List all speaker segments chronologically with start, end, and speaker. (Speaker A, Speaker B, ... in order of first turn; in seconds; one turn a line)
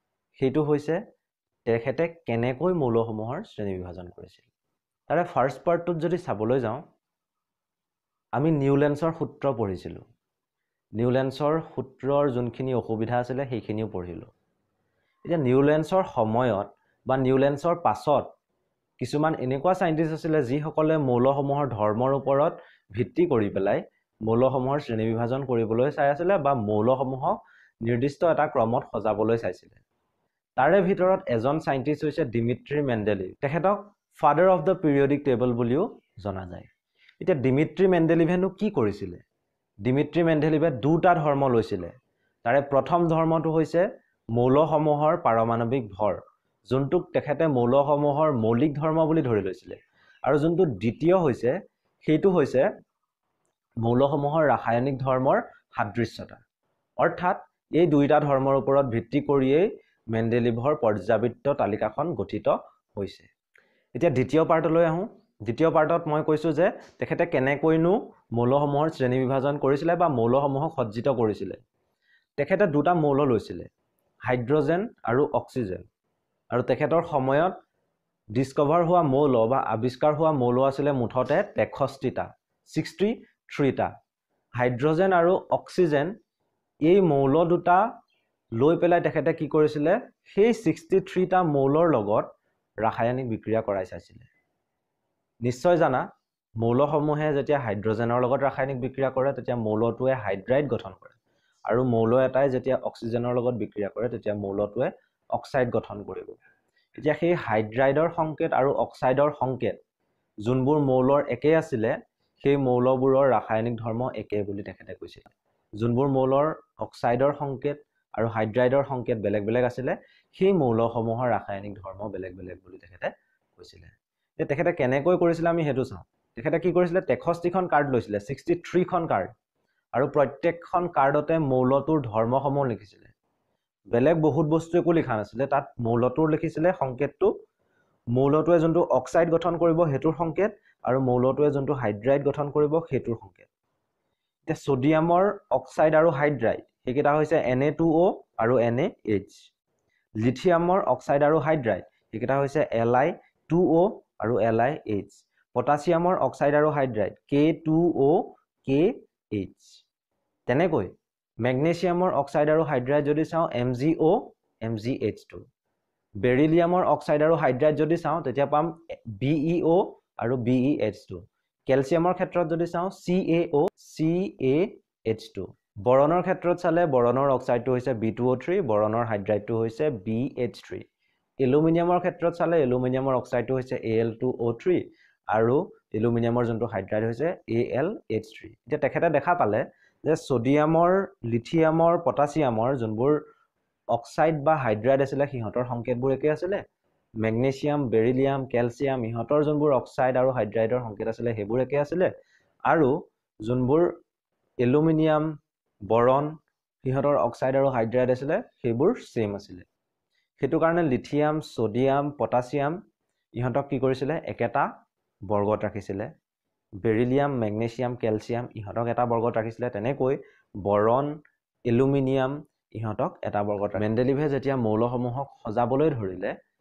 Speaker A: 0.4-1.0
Speaker A: 1.7-4.5
Speaker A: 5.1-6.8
Speaker A: 8.4-10.0
Speaker A: 11.0-14.3
Speaker A: 15.3-18.3
Speaker A: 19.0-29.8
Speaker A: 30.6-36.7
Speaker A: 37.2-39.2
Speaker A: 39.8-41.9
Speaker A: 42.5-52.7
Speaker A: 53.8-56.4
Speaker A: 57.0-63.3
Speaker A: 64.0-71.6
Speaker A: 72.4-73.7
Speaker A: 74.2-75.9
Speaker A: 76.5-77.6
Speaker A: 78.3-83.9
Speaker A: 84.6-86.1
Speaker A: 86.9-87.8
Speaker A: 88.6-92.3
Speaker A: 92.8-94.3
Speaker A: 95.4-96.0
Speaker A: 96.6-106.4
Speaker A: 107.0-109.8
Speaker A: 110.4-129.3
Speaker A: 129.9-133.1
Speaker A: 133.9-137.3
Speaker A: 138.1-143.5
Speaker A: 144.5-149.4
Speaker A: 150.2-159.8
Speaker A: 160.5-165.4
Speaker A: 166.2-180.9
Speaker A: 181.4-193.2
Speaker A: 193.9-196.6
Speaker A: 197.2-202.1
Speaker A: 203.4-203.9
Speaker A: 204.6-205.3
Speaker A: 205.9-206.3
Speaker A: 206.8-209.7
Speaker A: 210.4-212.8
Speaker A: 213.4-214.7
Speaker A: 215.3-216.1
Speaker A: 216.8-221.1
Speaker A: 221.7-226.3